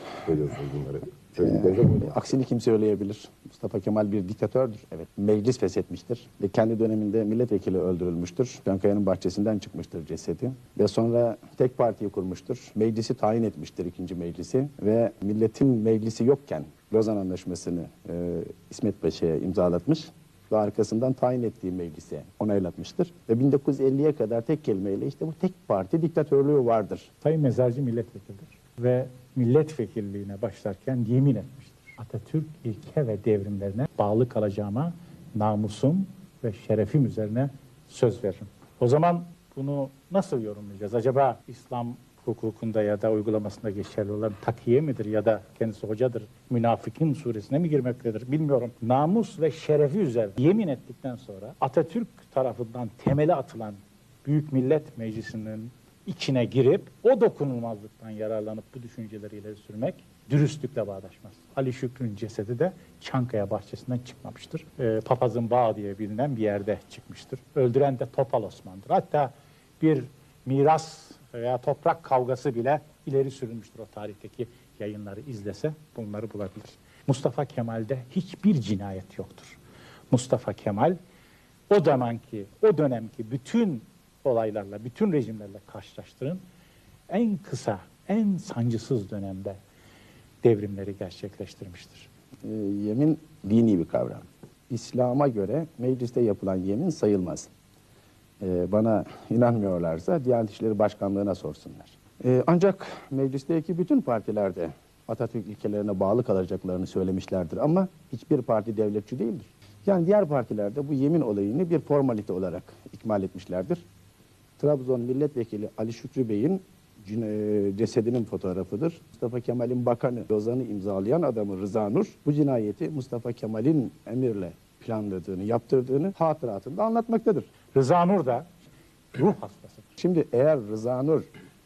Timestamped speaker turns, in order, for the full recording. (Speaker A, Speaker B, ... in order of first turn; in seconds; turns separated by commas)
Speaker A: 0.2-2.1, Speaker B: 1.4-27.1, Speaker C: 27.2-79.6, Speaker C: 80.1-81.0, Speaker C: 81.7-86.4, Speaker C: 87.1-89.6, Speaker C: 90.4-92.1, Speaker B: 92.4-97.5, Speaker B: 98.4-113.8, Speaker B: 114.6-127.5, Speaker C: 127.7-128.5, Speaker C: 129.1-129.9, Speaker B: 130.0-131.3